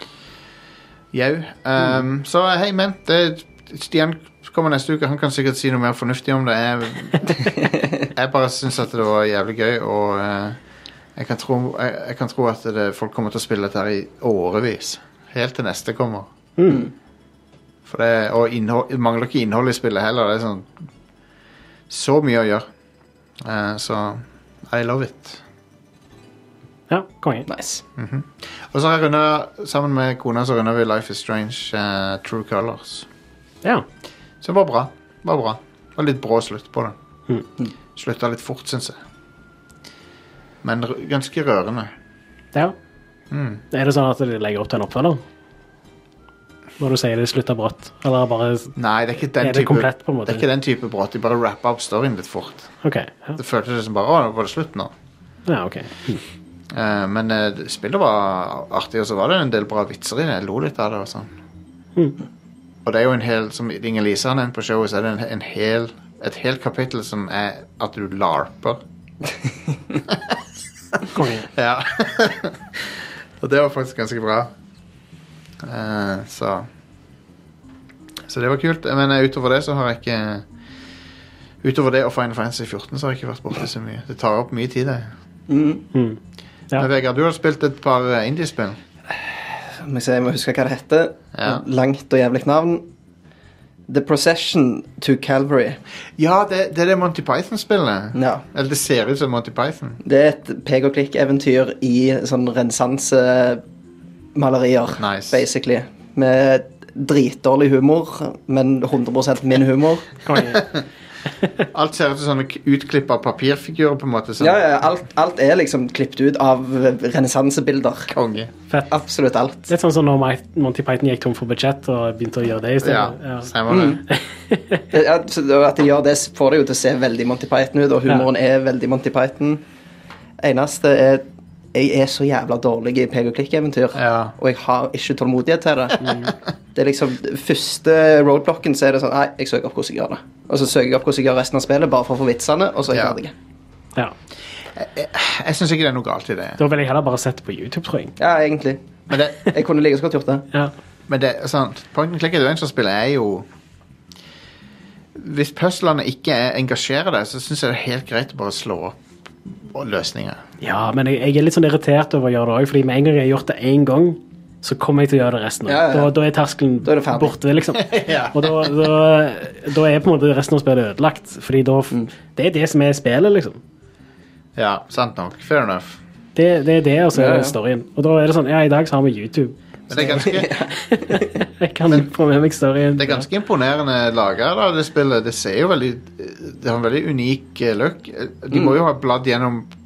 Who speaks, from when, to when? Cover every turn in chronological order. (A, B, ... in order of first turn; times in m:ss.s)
0:01.1-0:10.6 A
0:11.2-0:16.3 A
0:16.6-0:16.9 B
0:17.9-0:20.9 A
0:21.9-0:22.7 A
0:23.4-0:25.4 A
0:26.9-0:27.5 B
0:27.5-0:27.8 C
0:28.0-0:33.1 A
0:34.4-0:37.0 A
0:38.0-0:39.0 A
0:40.6-0:41.9 A
0:43.3-0:43.6 A
0:43.7-0:45.2 B
0:46.8-0:48.8 B
0:48.8-0:52.7 A
0:49.4-0:50.5 B
0:52.8-0:53.4 B
0:53.4-0:54.9 A
0:55.5-0:56.2 B
0:56.7-1:01.3 A
1:02.8-1:08.8 A
1:10.1-1:10.4 A
1:10.9-1:14.5 A
1:11.1-1:11.5 B
1:15.6-1:16.7 A
1:18.3-1:20.5 A
1:21.6-1:25.1 A
1:25.5-1:25.9 C
1:25.9-1:26.2 B
1:26.8-1:28.8 A
1:29.8-1:32.8 C
1:31.4-1:31.6 A
1:33.9-1:35.8 C
1:36.2-1:40.0 A
1:38.2-1:38.4 C
1:40.0-1:43.6 C
1:44.4-1:50.2 C
1:45.0-1:45.4 A
1:50.2-1:50.6 B
1:50.5-1:50.8 A
1:51.7-1:54.6 A
1:54.4-1:58.1 C
1:58.1-1:58.5 A
1:58.9-1:59.7 C
1:59.7-2:03.6 B
2:02.8-2:04.0 A
2:03.7-2:04.0 C
2:04.1-2:04.8 B
2:04.9-2:09.6 C
2:10.4-2:16.1 C
2:14.0-2:14.4 A
2:16.0-2:16.3 B
2:16.8-2:23.3 C
2:22.9-2:23.2 A
2:24.8-2:26.6 A
2:26.6-2:28.1 B
2:28.2-2:28.9 C
2:29.1-2:29.4 A
2:29.4-2:30.5 C
2:31.1-2:33.5 A
2:35.2-2:39.0 A
2:39.5-2:40.4 A
2:40.6-2:53.6 B
2:45.7-2:46.1 C
2:46.8-2:47.4 C
2:47.8-2:48.8 A
2:54.6-2:56.0 A
2:56.4-3:03.3 B
2:57.1-2:57.6 C
2:59.9-3:00.5 A
3:00.0-3:01.4 C
3:03.0-3:09.7 A